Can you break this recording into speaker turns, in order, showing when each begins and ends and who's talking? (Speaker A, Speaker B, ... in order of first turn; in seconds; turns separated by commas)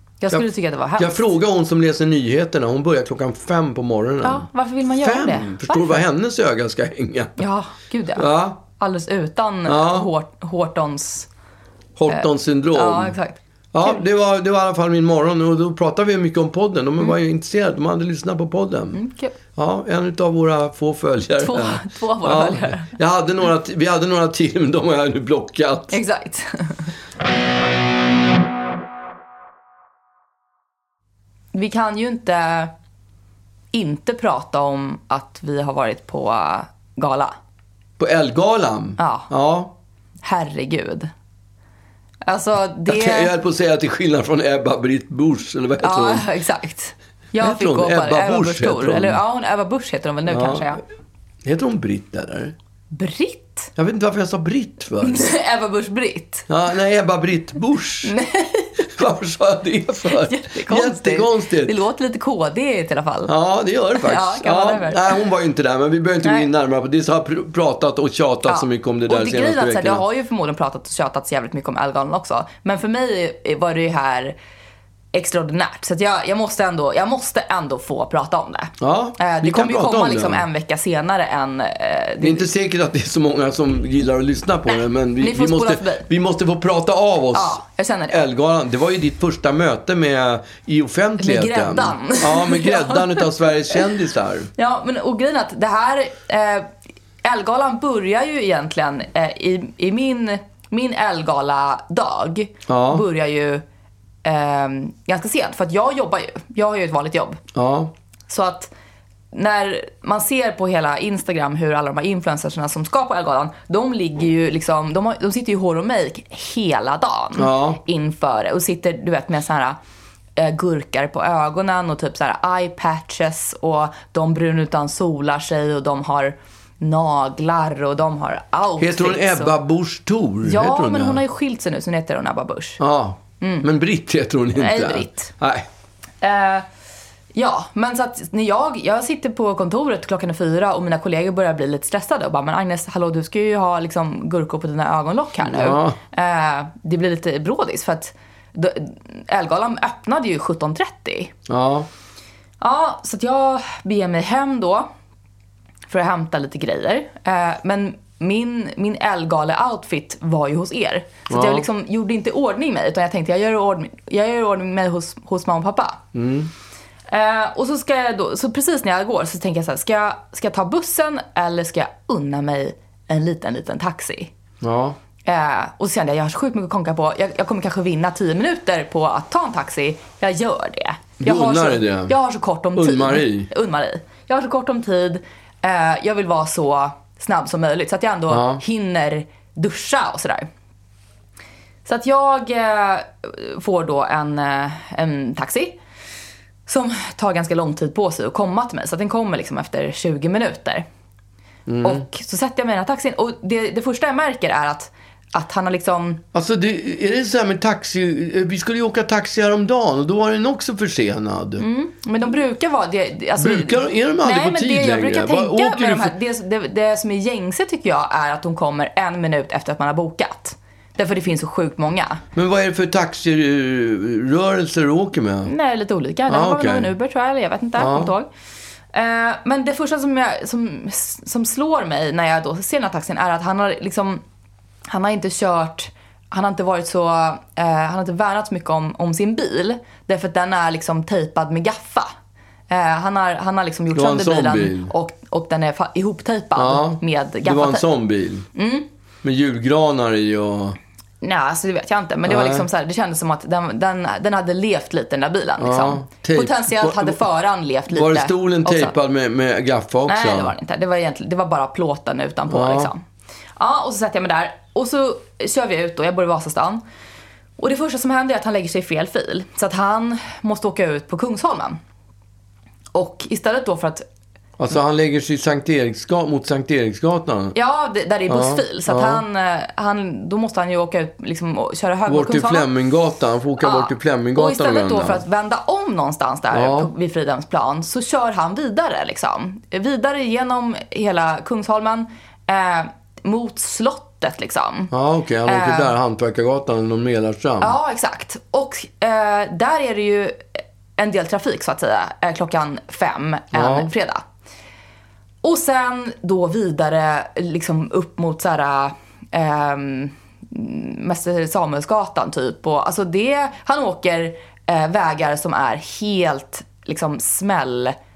Speaker A: 0.2-1.2, Speaker B: 1.0-4.5, Speaker A: 4.2-6.0, Speaker B: 5.0-7.4, Speaker A: 7.4-11.3, Speaker B: 8.2-8.6, Speaker B: 9.7-10.1, Speaker B: 12.0-13.2, Speaker A: 12.1-14.0, Speaker B: 13.7-19.0, Speaker A: 18.9-19.3, Speaker B: 19.6-26.0, Speaker A: 21.4-22.9, Speaker A: 25.9-26.9, Speaker A: 31.5-32.7, Speaker A: 33.7-37.3, Speaker B: 38.0-39.7, Speaker A: 39.0-39.3, Speaker A: 40.2-41.1, Speaker A: 42.2-43.3, Speaker B: 42.9-46.2, Speaker A: 45.8-50.8, Speaker B: 47.4-49.2, Speaker B: 50.2-50.8, Speaker B: 51.4-52.5, Speaker A: 52.9-53.7, Speaker B: 53.8-55.3, Speaker A: 55.0-56.5, Speaker B: 56.5-58.1, Speaker A: 58.0-58.7, Speaker B: 59.0-61.7, Speaker A: 60.1-63.3, Speaker B: 63.2-70.0, Speaker A: 63.9-65.2, Speaker A: 68.5-74.3, Speaker A: 75.1-82.5, Speaker B: 78.8-80.4, Speaker B: 82.2-87.6, Speaker A: 85.2-86.1, Speaker A: 87.3-88.2, Speaker B: 88.1-94.5, Speaker A: 91.2-93.8, Speaker A: 94.6-96.7, Speaker A: 97.2-103.6, Speaker B: 102.7-103.0, Speaker A: 104.2-107.4, Speaker B: 107.5-107.9, Speaker A: 108.3-108.7, Speaker A: 109.3-119.8, Speaker B: 117.4-117.8, Speaker A: 120.3-129.5, Speaker B: 128.8-131.2, Speaker A: 130.4-132.8, Speaker B: 132.8-135.7, Speaker A: 133.4-133.7, Speaker A: 134.6-135.3, Speaker A: 136.2-136.7, Speaker A: 137.3-151.3, Speaker B: 145.4-146.0, Speaker B: 151.5-151.9, Speaker A: 152.6-154.9, Speaker A: 155.9-166.0, Speaker B: 161.3-161.6, Speaker B: 166.1-166.5, Speaker A: 167.1-174.3, Speaker B: 174.6-175.0, Speaker A: 175.2-190.5, Speaker B: 181.2-182.1, Speaker B: 182.8-183.5, Speaker B: 188.3-188.6, Speaker A: 191.8-195.8, Speaker A: 196.7-200.8, Speaker B: 201.7-202.0, Speaker A: 201.8-206.2, Speaker B: 206.3-211.6, Speaker A: 211.6-222.2, Speaker B: 213.4-216.1, Speaker B: 222.3-225.5, Speaker A: 225.4-228.3, Speaker B: 226.3-226.9, Speaker B: 227.8-228.1, Speaker A: 228.9-234.2, Speaker A: 234.9-242.1, Speaker A: 242.7-247.8, Speaker B: 243.9-244.9, Speaker B: 246.6-248.4, Speaker A: 248.5-248.8, Speaker B: 249.2-250.8, Speaker A: 251.2-258.9, Speaker B: 252.2-252.7, Speaker B: 255.6-257.2, Speaker B: 257.9-260.5, Speaker A: 260.1-263.0, Speaker B: 262.5-262.9, Speaker A: 263.6-266.8, Speaker A: 267.6-271.8, Speaker A: 272.9-274.1, Speaker B: 274.6-277.5, Speaker A: 277.5-282.7, Speaker B: 278.3-279.2, Speaker B: 282.1-285.2, Speaker A: 283.6-294.9, Speaker B: 286.5-286.9, Speaker B: 294.9-297.7, Speaker A: 295.4-295.9, Speaker A: 297.6-304.2, Speaker B: 303.5-303.9, Speaker A: 305.4-317.9